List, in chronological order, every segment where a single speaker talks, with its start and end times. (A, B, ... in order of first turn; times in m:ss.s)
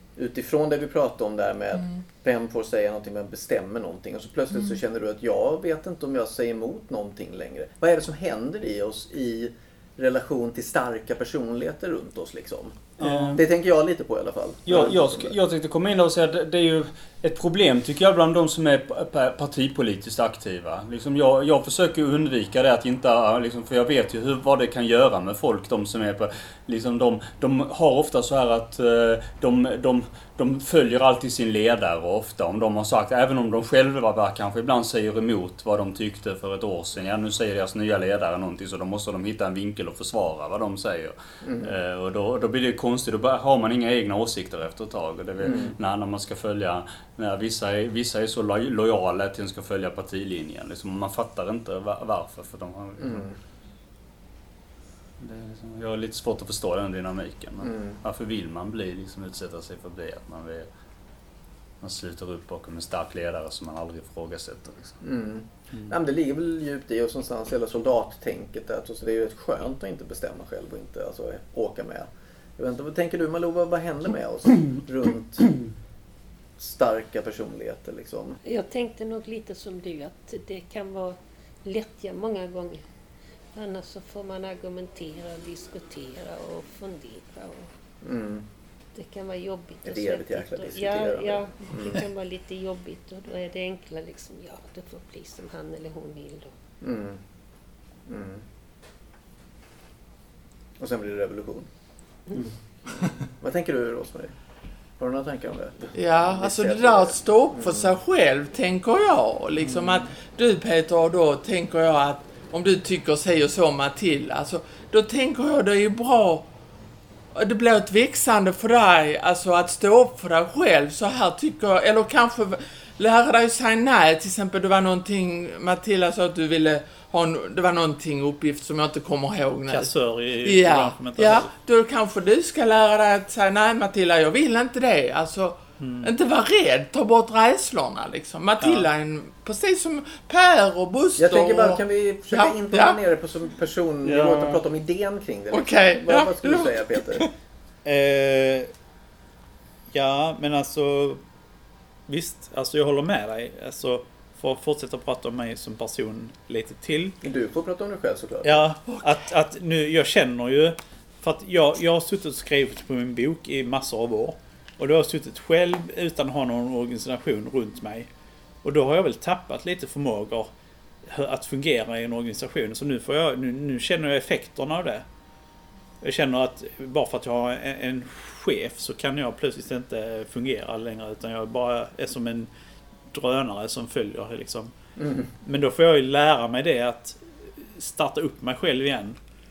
0:00.2-0:15.3 A
0:13.0-0:13.4 B
0:13.0-0:13.4 C
0:14.7-0:53.3 B
0:41.4-0:41.7 A
0:45.4-0:45.8 A
0:53.0-0:53.4 A
0:55.2-1:00.7 B
0:57.6-0:58.0 A
1:01.8-1:05.0 B
1:05.0-1:15.5 A
1:15.4-1:15.7 B
1:16.6-1:18.4 A
1:18.4-1:22.8 D
1:23.5-1:27.7 D
1:28.0-1:28.4 A
1:29.0-1:36.5 D
1:29.8-1:32.0 A
1:36.8-1:37.2 A
1:38.1-1:38.4 A
1:40.8-1:41.7 A
1:42.9-1:44.3 A
1:45.0-1:47.9 A
1:46.0-1:56.4 E
1:57.3-2:23.0 E
2:09.7-2:11.5 C
2:15.8-2:16.1 C
2:18.6-2:18.9 C
2:21.2-2:27.3 A
2:24.0-2:24.6 B
2:25.5-2:27.3 E
2:27.8-2:28.7 C
2:29.9-2:31.2 C
2:32.1-2:37.2 C
2:37.2-2:38.7 A
2:38.4-2:48.1 C
2:48.6-2:50.5 C
2:51.0-2:55.0 C
2:56.0-3:02.5 C
3:03.1-3:04.7 C
3:05.0-3:05.3 A
3:05.4-3:09.2 C